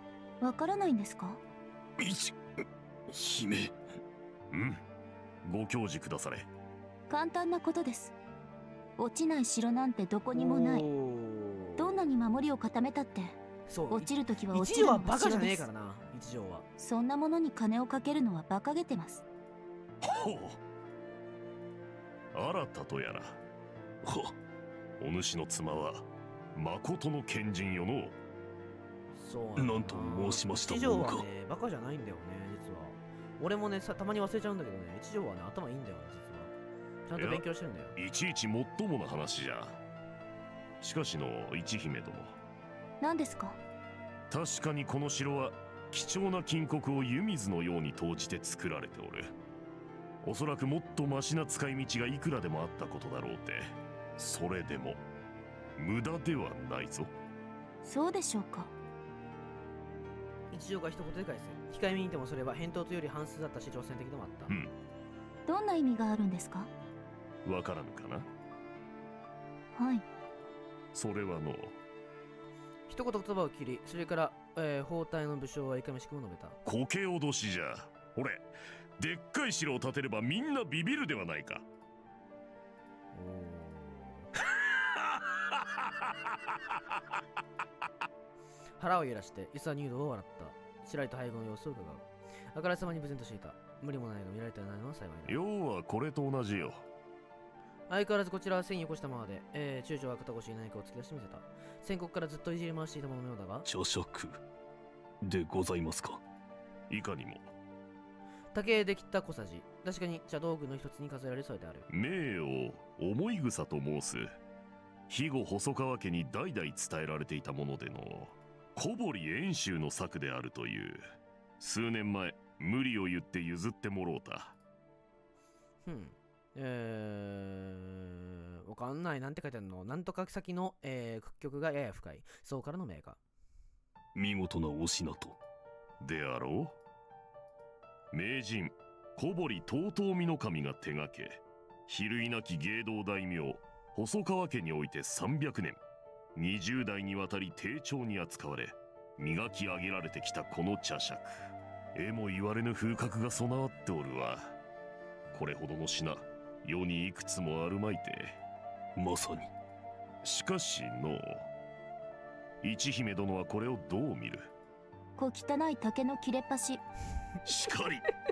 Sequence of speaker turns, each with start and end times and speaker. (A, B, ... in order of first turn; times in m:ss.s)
0:00.4-0:01.4 A
0:02.0-0:03.8 B
0:04.5-0:04.8 C
0:05.4-0:06.5 C
0:07.1-0:08.2 A
0:09.0-0:10.9 A
0:10.4-0:12.0 D
0:11.8-0:13.4 A
0:13.7-0:16.7 D
0:13.9-0:15.7 A
0:16.8-0:19.2 A
0:20.0-0:20.6 C
0:22.3-0:23.4 C
0:24.0-0:24.4 B
0:25.0-0:28.2 C
0:29.1-0:36.5 D
0:29.6-0:31.2 B
0:37.1-0:38.0 D
0:37.2-0:37.4 C
0:38.0-0:39.8 C
0:40.8-0:42.4 C
0:43.0-0:43.6 A
0:44.3-0:49.3 C
0:50.2-0:55.0 C
0:55.8-0:57.1 C
0:57.8-0:58.7 A
1:00.5-1:04.5 D
1:04.5-1:04.8 C
1:05.5-1:06.7 A
1:07.4-1:08.3 C
1:09.8-1:10.0 A
1:10.9-1:11.8 C
1:12.9-1:16.6 D
1:16.6-1:18.5 C
1:19.0-1:21.7 C
1:23.1-1:24.3 D
1:28.8-1:35.4 D
1:35.3-1:36.9 C
1:37.9-1:43.7 D
1:43.7-1:44.4 B
1:45.2-1:46.2 B
1:46.9-1:47.5 C
1:48.5-1:51.9 D
1:51.9-1:54.4 C
1:55.1-2:04.6 C
2:05.8-2:13.2 D
2:14.2-2:15.4 B
2:16.0-2:16.8 C
2:18.1-2:25.8 C
2:26.4-2:34.6 C
2:35.3-2:38.4 C
2:39.0-2:39.5 B
2:40.2-2:41.5 C
2:42.6-2:44.5 C
2:45.2-2:46.8 A
2:47.4-2:48.1 C